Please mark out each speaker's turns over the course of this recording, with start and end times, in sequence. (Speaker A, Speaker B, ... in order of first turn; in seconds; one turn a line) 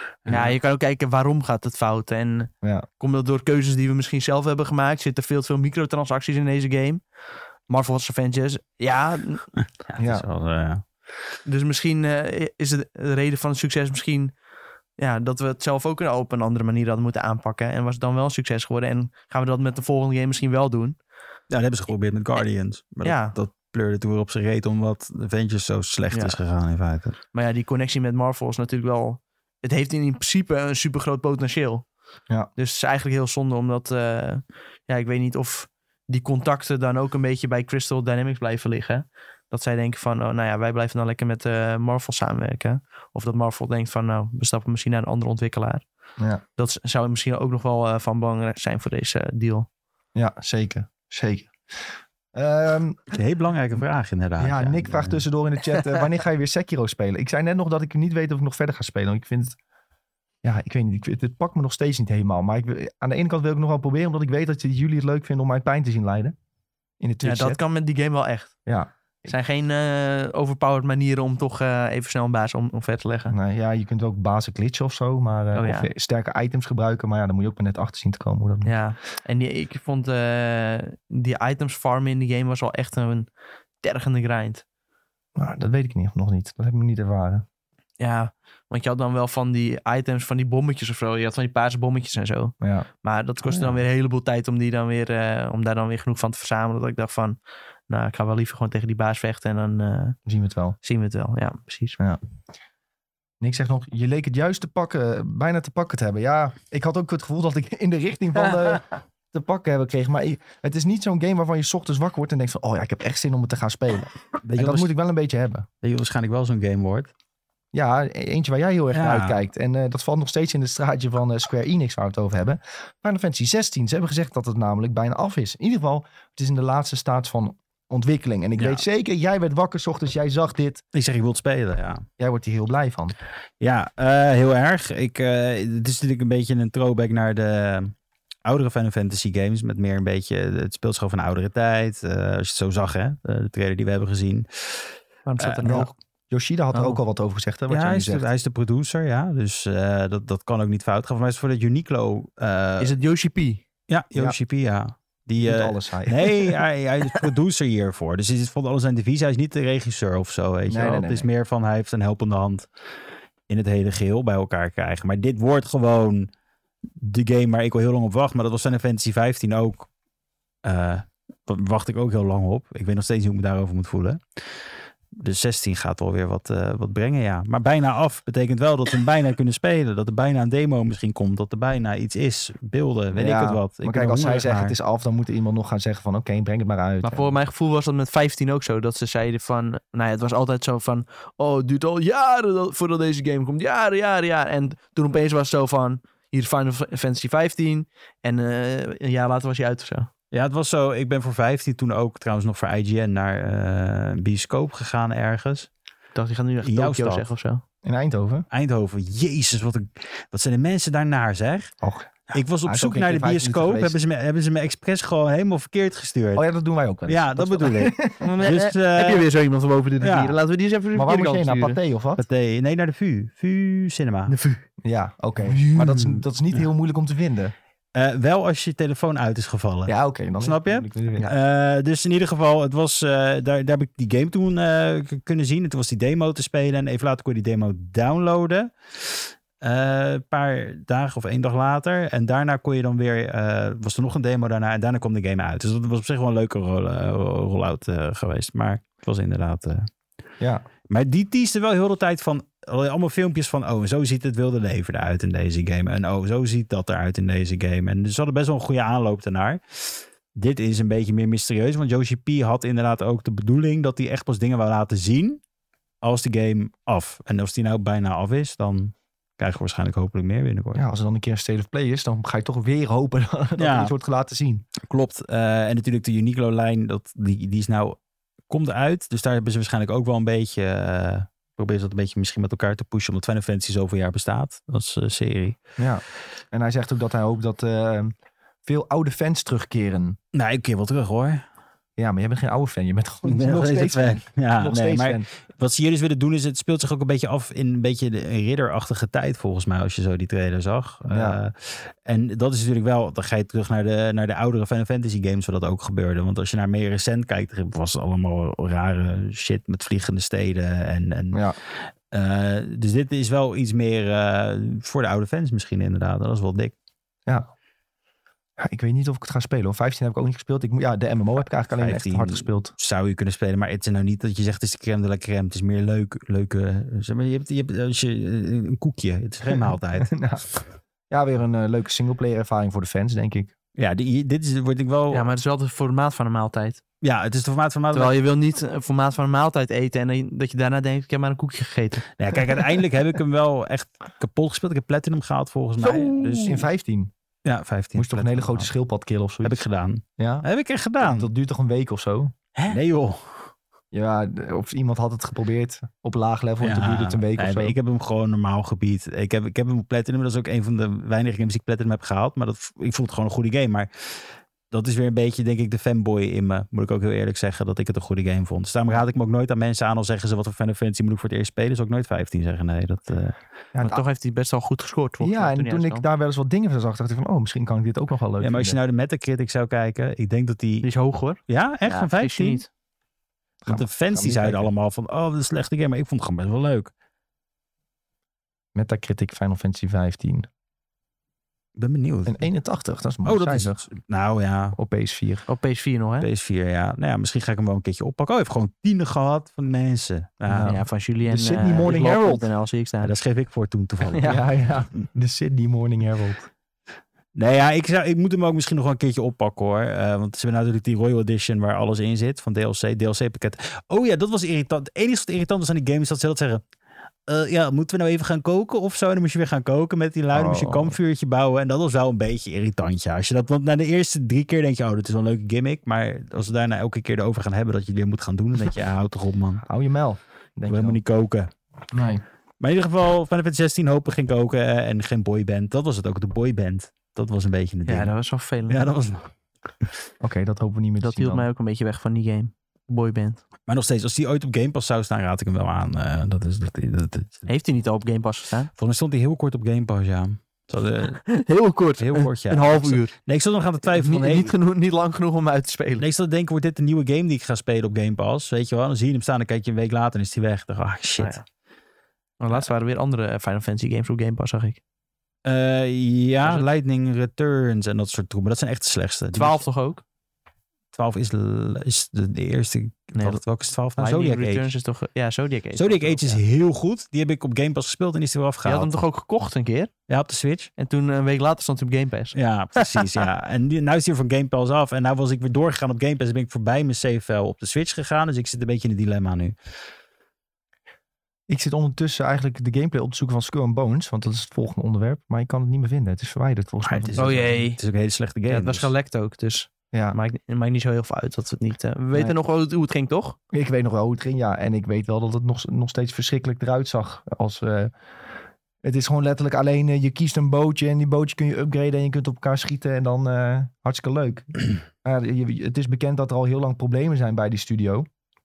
Speaker A: 0.2-0.5
Speaker B: 0.3-7.0
Speaker C: 2.6-2.9
Speaker B: 7.7-9.5
Speaker A: 9.9-10.8
Speaker C: 10.0-10.2
Speaker B: 11.5-14.3
Speaker B: 15.0-21.0
Speaker A: 21.5-27.2
Speaker B: 23.0-23.4
Speaker B: 26.1-26.4
Speaker B: 27.3-31.9
Speaker B: 32.5-45.9
Speaker B: 46.6-49.7
Speaker C: 50.1-51.8
Speaker C: 52.3-53.0
Speaker A: 53.1-55.2
Speaker C: 54.4-59.6
Speaker C: 60.4-66.3
Speaker C: 67.0-67.6
Speaker B: 67.2-68.5
Speaker C: 68.7-69.3
Speaker B: 69.3-73.3
Speaker C: 73.3-78.7
Speaker B: 75.5-75.9
Speaker B: 78.7-83.3
Speaker B: 83.8-84.6
Speaker C: 85.4-87.5
Speaker B: 88.0-97.4
Speaker C: 92.6-92.9
Speaker B: 97.9-100.2
Speaker C: 100.3-100.8
Speaker B: 100.8-102.0
Speaker C: 103.4-115.7
Speaker A: 114.4-114.9
Speaker A: 115.8-117.1
Speaker C: 117.7-130.8
Speaker A: 118.9-119.4
Speaker A: 128.6-128.8
Speaker A: 130.9-132.1
Speaker C: 132.2-133.2
Speaker A: 133.6-137.9
Speaker A: 138.4-144.9
Speaker B: 145.3-145.9
Speaker A: 145.4-145.8
Speaker C: 145.6-148.2
Speaker B: 146.7-147.0
Speaker A: 147.7-152.9
Speaker B: 152.8-153.6
Speaker A: 153.9-162.7
Speaker C: 155.4-156.6
Speaker C: 160.7-161.3
Speaker A: 163.5-166.3
Speaker A: 167.0-169.9
Speaker A: 170.6-174.5
Speaker A: 175.2-184.8
Speaker C: 183.1-187.3
Speaker B: 187.0-200.1
Speaker A: 200.3-205.7
Speaker B: 206.2-207.6
Speaker A: 206.6-207.3
Speaker C: 207.8-208.5
Speaker A: 208.5-211.7
Speaker C: 211.8-214.0
Speaker A: 212.3-216.4
Speaker C: 216.3-218.3
Speaker A: 217.1-219.3
Speaker B: 218.2-221.8
Speaker A: 220.0-220.4
Speaker C: 220.9-222.2
Speaker A: 222.2-224.3
Speaker B: 224.3-224.7
Speaker C: 224.8-227.5
Speaker B: 225.4-226.1
Speaker A: 227.9-249.9
Speaker C: 229.9-231.3
Speaker C: 250.4-250.7
Speaker A: 250.9-265.4
Speaker A: 266.0-270.8
Speaker C: 270.8-274.6
Speaker A: 273.6-273.9
Speaker A: 274.8-278.0
Speaker A: 278.5-285.6
Speaker C: 285.8-288.1
Speaker C: 288.6-290.2
Speaker A: 290.3-291.4
Speaker C: 292.0-295.3
Speaker A: 293.2-311.4
Speaker C: 301.1-301.4
Speaker A: 312.1-316.7
Speaker C: 318.6-322.7
Speaker A: 321.8-330.2
Speaker C: 329.5-330.4
Speaker C: 331.1-333.5
Speaker A: 333.8-335.3
Speaker B: 335.1-336.8
Speaker A: 337.0-338.1
Speaker B: 337.9-342.1
Speaker A: 342.2-346.7
Speaker B: 345.8-346.6
Speaker C: 346.4-347.1
Speaker A: 347.4-348.7
Speaker C: 347.9-349.6
Speaker A: 349.4-351.3
Speaker C: 350.2-350.5
Speaker C: 351.0-352.4
Speaker A: 352.7-353.2
Speaker C: 353.9-357.8
Speaker A: 356.6-373.4
Speaker C: 373.7-374.0
Speaker B: 373.8-376.1
Speaker C: 375.2-378.8
Speaker A: 378.4-380.9
Speaker B: 380.8-382.7
Speaker A: 381.5-382.6
Speaker C: 383.6-384.7
Speaker A: 383.7-386.9
Speaker C: 388.8-390.5
Speaker A: 391.8-392.4
Speaker C: 392.3-393.8
Speaker A: 393.2-394.8
Speaker C: 394.8-395.5
Speaker B: 395.5-396.3
Speaker A: 396.2-400.8
Speaker C: 400.5-402.5
Speaker B: 400.6-403.1
Speaker A: 403.0-404.4
Speaker C: 404.2-406.5
Speaker A: 407.4-416.6
Speaker A: 417.3-429.6
Speaker C: 420.3-421.0
Speaker C: 429.6-431.0
Speaker A: 430.7-431.5
Speaker C: 431.9-432.2
Speaker A: 432.6-438.1
Speaker B: 437.9-438.9
Speaker A: 438.7-439.3
Speaker C: 440.2-441.5
Speaker B: 441.0-443.4
Speaker A: 443.7-447.5
Speaker B: 447.5-448.7
Speaker A: 448.8-451.3
Speaker B: 451.1-453.1
Speaker A: 452.0-454.5
Speaker B: 453.9-456.1
Speaker A: 456.0-461.4
Speaker B: 462.4-464.8
Speaker A: 465.4-469.6
Speaker B: 466.4-466.7
Speaker B: 469.3-470.0
Speaker A: 470.9-474.7
Speaker B: 473.1-473.4
Speaker B: 474.0-476.4
Speaker A: 475.7-479.0
Speaker B: 478.6-479.9
Speaker A: 480.1-480.7
Speaker B: 480.8-483.2
Speaker A: 482.3-489.6
Speaker C: 491.5-497.4
Speaker A: 496.8-498.9
Speaker B: 497.2-497.8
Speaker B: 498.5-503.4
Speaker C: 499.9-500.2
Speaker C: 503.5-507.9
Speaker C: 508.8-518.1